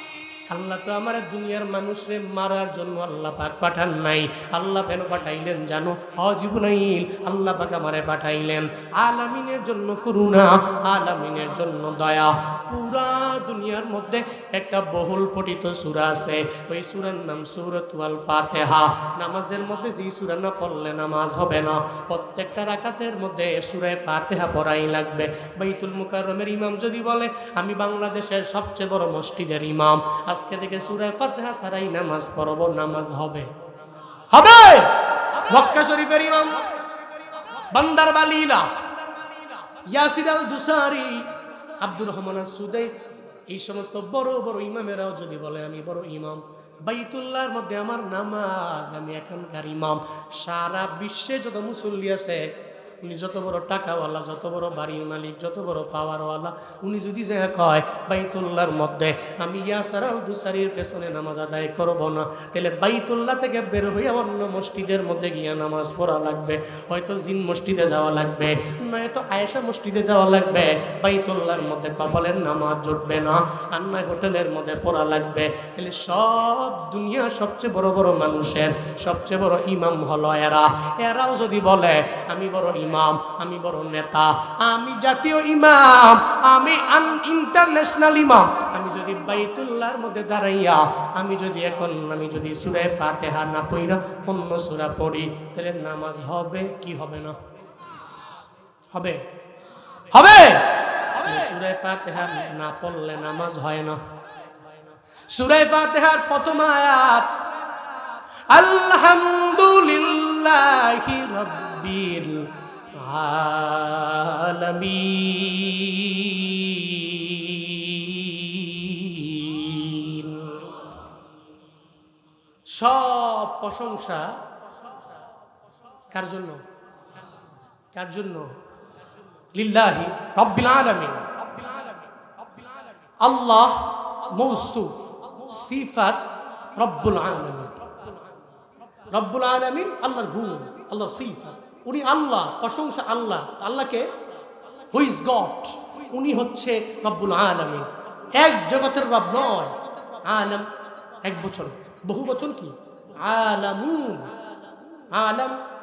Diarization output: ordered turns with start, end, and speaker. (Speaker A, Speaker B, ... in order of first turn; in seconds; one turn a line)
Speaker A: 0.5-33.5
Speaker A: 34.3-36.6
Speaker A: 37.7-38.7
Speaker A: 39.8-97.4
Speaker A: 98.9-99.2
Speaker A: 100.1-104.0
Speaker A: 105.3-107.4
Speaker A: 108.5-120.7
Speaker A: 122.7-124.4
Speaker A: 126.1-126.6
Speaker A: 127.9-128.5
Speaker A: 129.5-131.8
Speaker A: 133.2-138.0
Speaker A: 139.1-144.2
Speaker A: 144.9-150.7
Speaker A: 151.2-154.3
Speaker A: 155.1-155.6